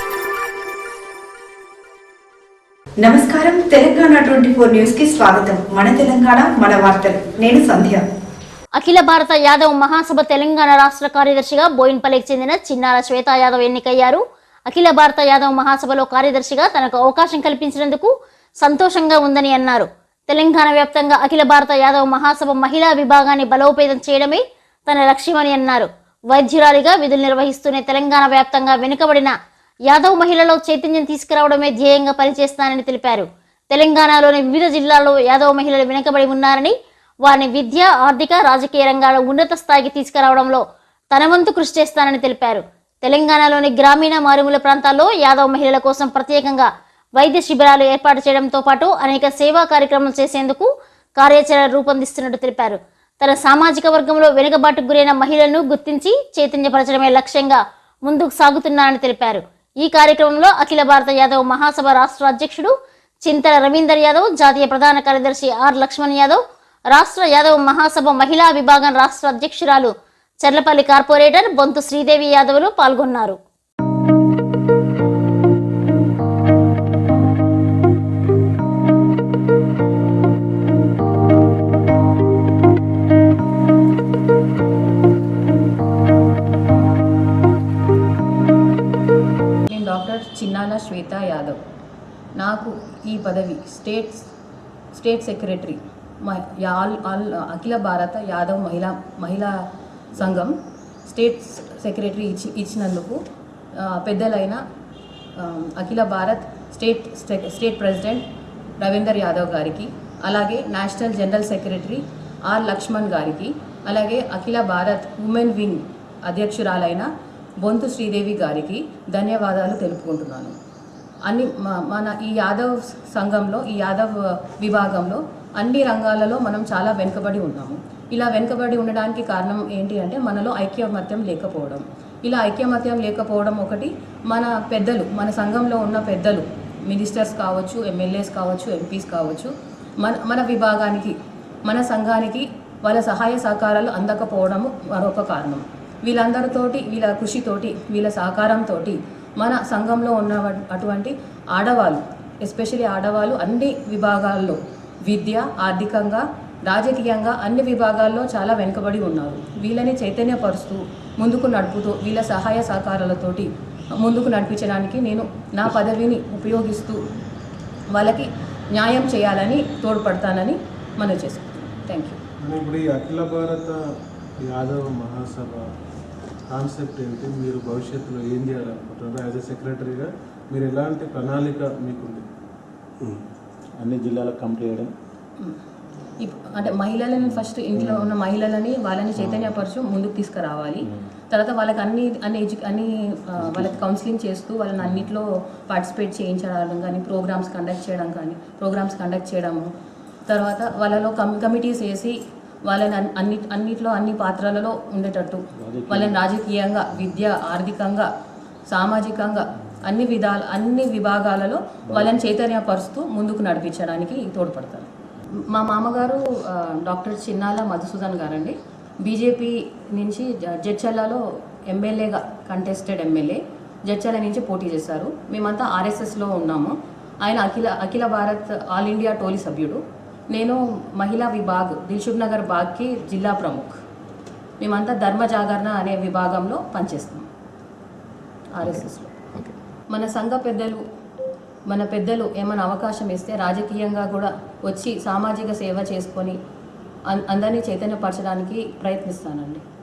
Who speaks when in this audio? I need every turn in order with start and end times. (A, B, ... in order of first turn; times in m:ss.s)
0:03.0-0:08.0 A
0:08.8-0:29.3 B
0:29.9-0:36.7 B
0:37.2-1:02.7 B
1:03.2-1:06.4 B
1:06.9-1:13.4 B
1:29.7-1:31.6 C
1:32.4-1:34.3 C
1:34.9-1:39.5 C
1:40.1-1:40.5 C
1:41.0-1:43.2 C
1:43.8-1:44.6 C
1:45.4-1:48.2 C
1:48.8-1:57.1 C
1:57.6-2:00.6 C
2:01.2-2:21.1 C
2:21.6-2:43.5 C
2:44.0-2:47.0 C
2:47.9-2:52.2 C
2:52.4-2:53.8 D
2:54.4-2:55.7 D
2:56.5-3:02.2 D
3:03.8-3:04.9 E
3:06.2-3:19.7 C
3:07.8-3:08.0 E
3:13.4-3:13.7 E
3:20.3-3:22.1 C
3:22.7-3:28.1 C
3:25.6-3:26.2 E
3:28.7-3:34.9 C
3:35.5-3:49.8 C
3:50.3-3:53.7 C
3:54.6-3:57.3 C
3:58.6-3:59.2 C
3:59.9-4:00.8 C
4:01.7-4:06.4 C
4:07.1-4:09.6 C